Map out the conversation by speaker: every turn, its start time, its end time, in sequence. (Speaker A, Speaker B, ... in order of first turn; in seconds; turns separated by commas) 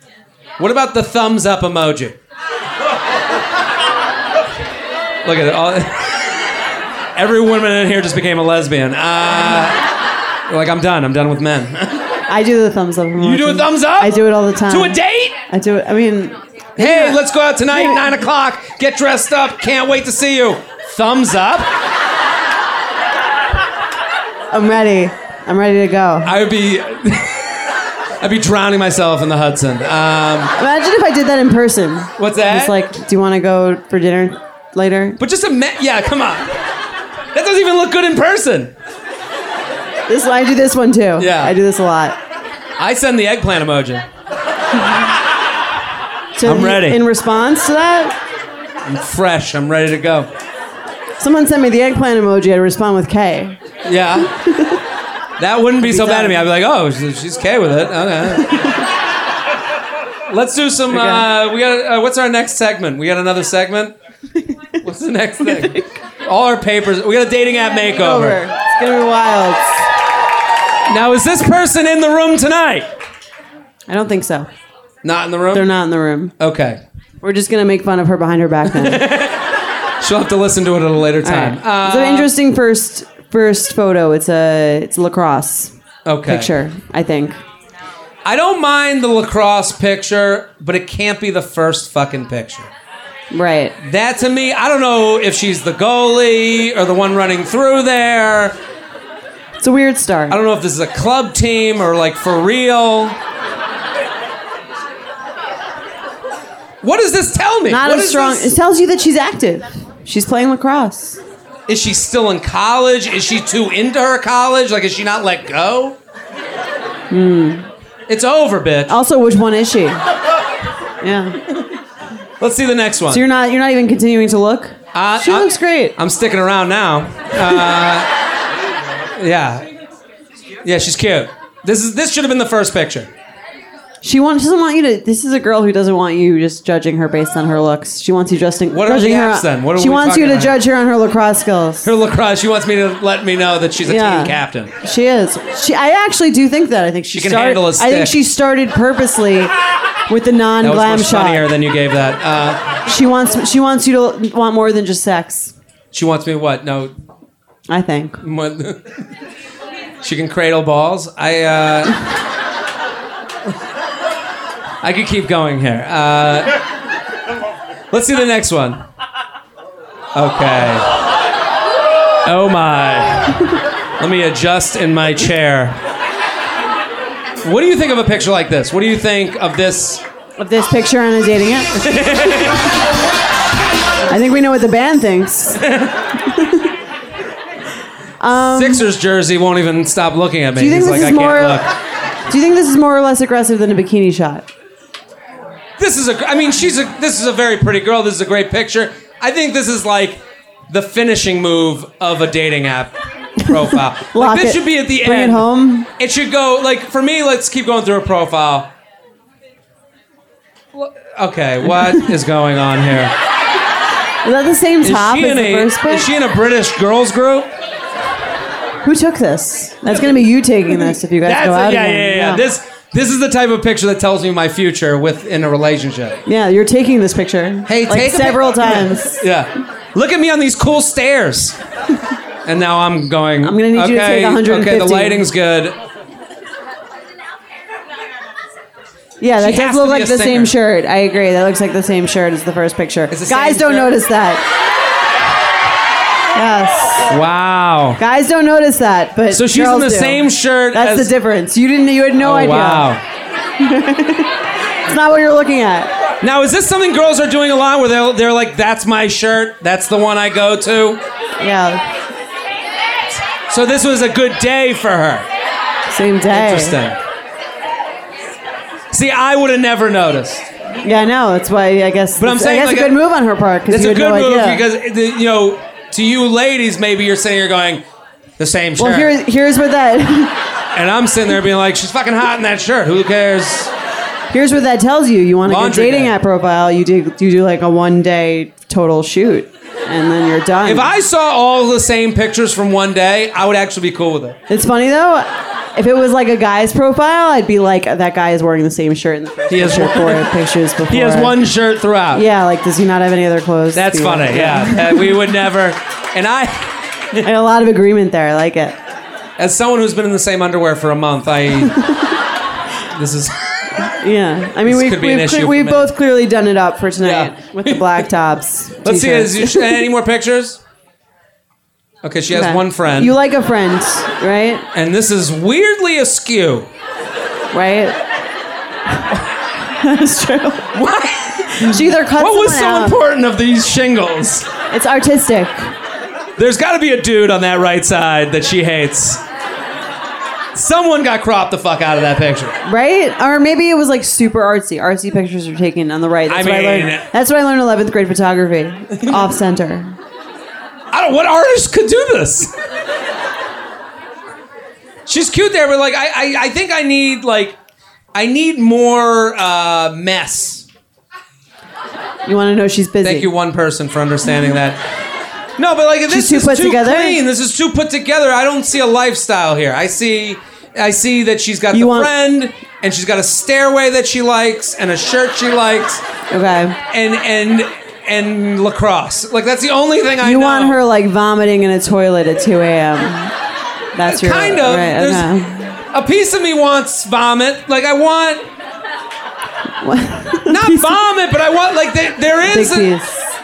Speaker A: 0.6-2.2, Speaker A: 5.2-6.3, Speaker A: 7.2-9.8, Speaker A: 10.5-12.1, Speaker B: 12.3-15.0, Speaker A: 13.2-15.4, Speaker B: 15.5-18.1, Speaker A: 16.8-21.7, Speaker B: 24.5-26.3, Speaker A: 26.2-27.7, Speaker A: 28.2-30.5, Speaker B: 30.6-35.2, Speaker A: 32.2-32.8, Speaker A: 35.2-36.5, Speaker A: 37.3-38.7, Speaker B: 40.1-42.2, Speaker A: 41.2-41.5, Speaker A: 42.8-44.1, Speaker B: 46.4-48.1, Speaker A: 46.4-47.0, Speaker A: 48.8-50.3, Speaker B: 51.2-53.6, Speaker A: 53.8-54.3, Speaker B: 54.3-54.8, Speaker A: 55.4-58.8, Speaker B: 55.8-56.5, Speaker B: 58.5-58.8, Speaker A: 60.3-64.0, Speaker B: 60.9-61.3, Speaker A: 64.8-68.4, Speaker B: 65.4-65.8, Speaker B: 67.9-69.8, Speaker A: 70.9-72.9, Speaker B: 73.9-74.5, Speaker A: 75.0-75.7, Speaker B: 75.5-76.3, Speaker A: 76.4-76.8, Speaker B: 77.2-79.1, Speaker A: 78.7-82.3, Speaker B: 81.2-85.7, Speaker A: 86.1-86.5, Speaker B: 86.3-87.4, Speaker A: 88.2-92.7, Speaker B: 93.3-93.7, Speaker A: 93.8-98.6, Speaker B: 99.6-100.4, Speaker A: 100.3-103.2, Speaker A: 106.8-108.6, Speaker B: 107.7-111.2, Speaker A: 111.7-116.0, Speaker B: 117.1-117.7, Speaker A: 118.1-119.0, Speaker B: 118.9-120.0, Speaker B: 121.0-121.4, Speaker A: 122.4-123.2, Speaker B: 123.1-126.0, Speaker A: 124.9-128.1, Speaker A: 129.1-129.7, Speaker A: 130.6-133.1, Speaker B: 134.0-141.9, Speaker A: 138.7-140.6, Speaker A: 141.8-144.7, Speaker B: 143.8-149.5, Speaker A: 147.1-148.2, Speaker B: 150.1-151.5, Speaker A: 150.6-152.6, Speaker B: 152.9-155.5, Speaker A: 155.9-156.9, Speaker B: 157.7-158.2, Speaker A: 158.2-159.0, Speaker A: 160.0-162.0, Speaker A: 164.8-166.6, Speaker A: 167.9-168.8, Speaker A: 170.2-170.9, Speaker A: 172.2-175.8, Speaker A: 177.4-180.0, Speaker B: 180.4-181.7, Speaker A: 181.8-182.7, Speaker B: 184.1-185.7, Speaker A: 185.6-186.1, Speaker B: 186.3-186.7, Speaker B: 188.2-188.8, Speaker A: 188.3-191.7, Speaker B: 190.6-191.7, Speaker B: 192.3-194.5, Speaker A: 195.8-208.7, Speaker B: 203.5-205.9, Speaker A: 210.7-213.1, Speaker B: 214.2-216.1, Speaker A: 214.8-217.5, Speaker B: 218.8-222.4, Speaker A: 220.9-226.2, Speaker B: 226.3-229.2, Speaker A: 227.7-231.6, Speaker A: 232.4-235.8, Speaker B: 233.4-235.2, Speaker B: 239.2-244.4, Speaker A: 239.4-240.6, Speaker A: 243.1-244.0, Speaker B: 246.3-247.1, Speaker A: 247.0-248.0, Speaker B: 248.0-252.9, Speaker A: 249.3-251.1, Speaker A: 252.2-253.0, Speaker B: 253.6-254.3, Speaker B: 254.9-255.9, Speaker A: 256.2-261.0, Speaker B: 261.4-261.9, Speaker A: 263.5-265.3, Speaker B: 265.9-266.8, Speaker A: 266.3-267.0, Speaker A: 268.9-270.5, Speaker B: 270.8-274.6, Speaker A: 272.2-273.0, Speaker A: 273.7-277.8, Speaker A: 278.4-279.1, Speaker B: 278.8-280.4, Speaker A: 280.7-283.7, Speaker B: 284.3-290.9, Speaker A: 285.4-286.1, Speaker A: 290.6-294.4, Speaker B: 294.5-301.4, Speaker A: 299.5-300.4, Speaker A: 300.9-302.3, Speaker B: 302.1-305.1, Speaker A: 303.7-307.3, Speaker B: 307.2-308.8, Speaker A: 309.4-311.8, Speaker B: 311.6-312.1, Speaker A: 312.9-313.9, Speaker B: 314.0-319.9, Speaker A: 314.6-315.9, Speaker A: 317.0-318.1, Speaker A: 318.8-320.6, Speaker A: 322.0-323.2, Speaker B: 322.3-324.7, Speaker A: 324.7-326.7, Speaker B: 327.5-328.0, Speaker B: 329.6-330.7, Speaker A: 330.7-334.5, Speaker B: 331.5-333.0, Speaker B: 334.7-335.7, Speaker A: 336.4-339.2, Speaker A: 340.6-342.6, Speaker B: 342.6-350.0, Speaker A: 346.3-347.1, Speaker A: 350.9-352.5, Speaker A: 355.1-357.6, Speaker A: 358.1-360.7, Speaker B: 362.3-363.3, Speaker A: 363.0-364.8, Speaker A: 365.6-376.0, Speaker B: 366.1-367.2, Speaker B: 371.7-372.1, Speaker B: 376.3-376.8, Speaker A: 376.9-380.8, Speaker B: 380.2-383.3, Speaker B: 383.9-385.8, Speaker A: 384.1-385.3, Speaker A: 385.9-388.5, Speaker B: 389.8-391.0, Speaker A: 390.5-393.0, Speaker B: 392.4-393.3